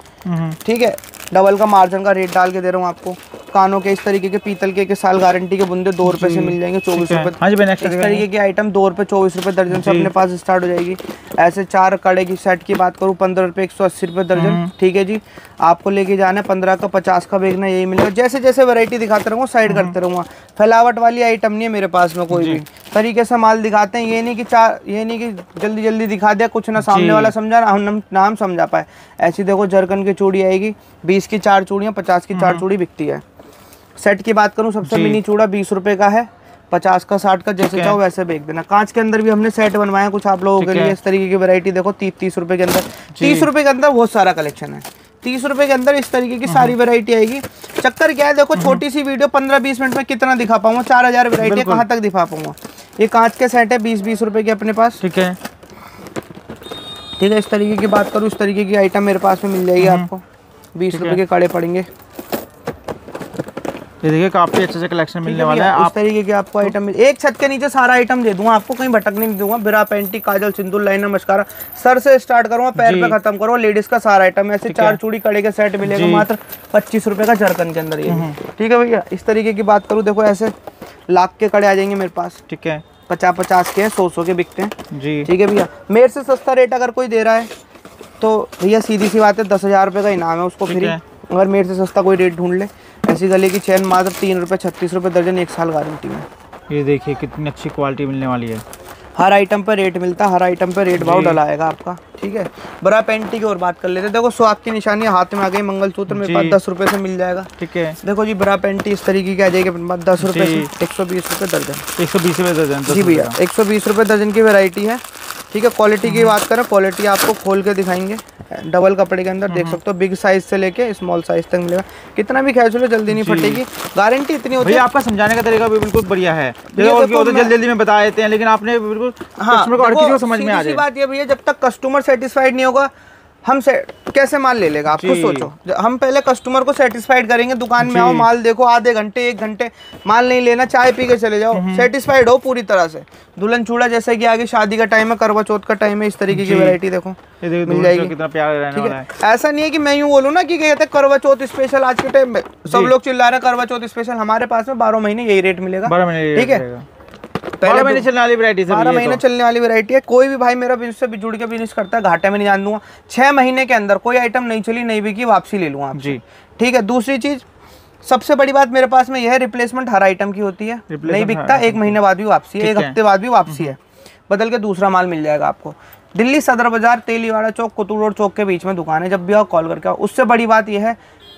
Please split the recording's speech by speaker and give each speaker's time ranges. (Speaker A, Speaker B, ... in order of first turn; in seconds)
Speaker A: 0.2-0.6, 6.0-8.2, 9.7-10.1, 14.3-14.7, 19.7-19.9, 22.3-22.6, 26.8-27.3, 32.3-32.6, 34.8-35.2, 37.6-38.0, 40.6-41.0, 43.1-43.5, 46.5-46.7, 48.5-48.8, 51.4-51.8, 55.0-55.4, 59.8-60.1, 60.9-61.2, 64.0-65.9, 72.8-73.2, 74.6-75.0, 75.8-76.2, 78.0-78.4, 82.5-82.8, 84.9-85.3, 90.6-91.0, 96.7-98.6, 101.0-101.4, 106.1-106.6, 107.6-108.0, 110.2-110.7, 112.0-113.3, 116.0-116.3, 119.5-119.8, 123.1-123.6, 124.6-130.8, 134.9-135.5, 137.8-138.3, 141.5-141.9, 146.3-146.8, 147.4-149.1, 152.7-152.9, 155.8-156.8, 157.6-159.2, 165.9-166.2, 170.9-172.0, 172.6-172.9, 173.5-173.7
Speaker B: 0.6-33.2, 34.0-55.0, 57.2-60.2, 60.7-61.9, 65.2-80.5, 81.1-82.4, 83.1-87.5, 88.2-96.3, 99.2-111.9, 112.9-124.9, 126.7-127.5, 129.4-132.9, 133.4-148.2, 148.7-156.6, 157.6-158.1, 158.7-167.4, 168.0-173.8, 174.3-181.0